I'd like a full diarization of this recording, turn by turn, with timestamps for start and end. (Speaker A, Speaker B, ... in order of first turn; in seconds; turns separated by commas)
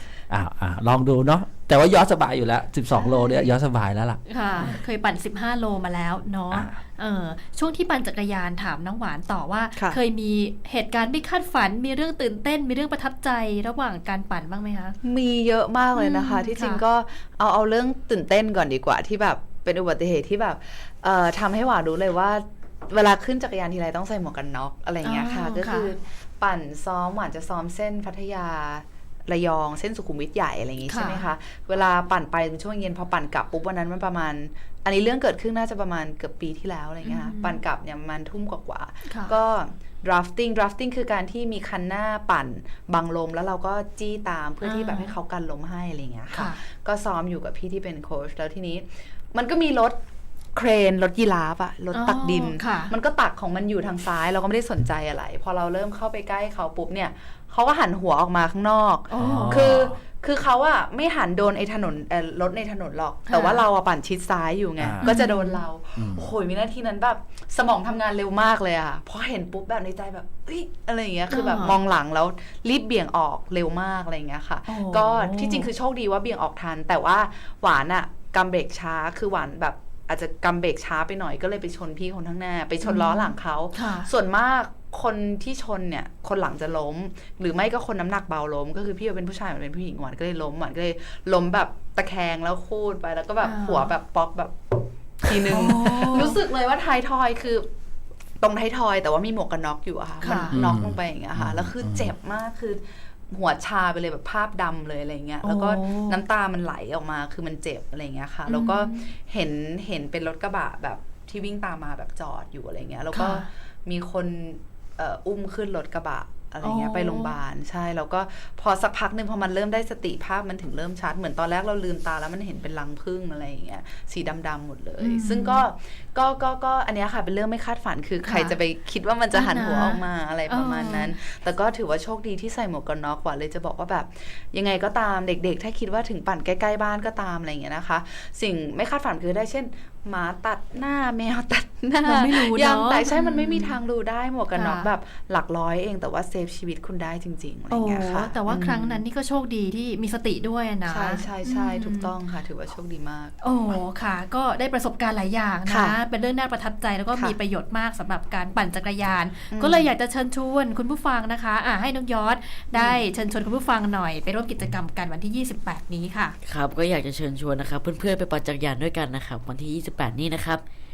Speaker A: 0.3-4.6, Speaker B: 2.9-3.5, Speaker C: 4.3-14.9, Speaker A: 6.5-6.8, Speaker B: 15.0-50.0, Speaker C: 15.9-16.8, Speaker C: 25.0-25.9, Speaker C: 30.9-31.3, Speaker C: 37.0-37.6, Speaker C: 39.1-39.3, Speaker C: 44.6-45.1, Speaker C: 46.3-46.6, Speaker B: 50.5-97.7, Speaker C: 51.9-52.9, Speaker C: 59.1-59.6, Speaker A: 59.2-60.0, Speaker C: 63.3-63.6, Speaker A: 64.8-65.2, Speaker C: 65.0-65.6, Speaker A: 66.0-66.3, Speaker C: 71.3-71.8, Speaker C: 74.7-75.7, Speaker C: 82.8-84.1, Speaker C: 93.4-93.9, Speaker C: 95.5-96.4, Speaker B: 98.4-149.0, Speaker C: 100.2-100.6, Speaker A: 100.5-102.1, Speaker C: 105.4-106.2, Speaker C: 108.5-109.1, Speaker C: 113.1-113.5, Speaker C: 116.6-117.4, Speaker C: 125.0-125.6, Speaker C: 128.2-128.6, Speaker C: 129.3-131.2, Speaker C: 142.0-143.8, Speaker C: 144.5-144.9, Speaker C: 147.7-152.1, Speaker B: 150.9-153.4, Speaker C: 153.4-166.4, Speaker B: 155.7-156.0, Speaker B: 159.5-159.9, Speaker B: 162.8-163.0, Speaker D: 166.4-170.6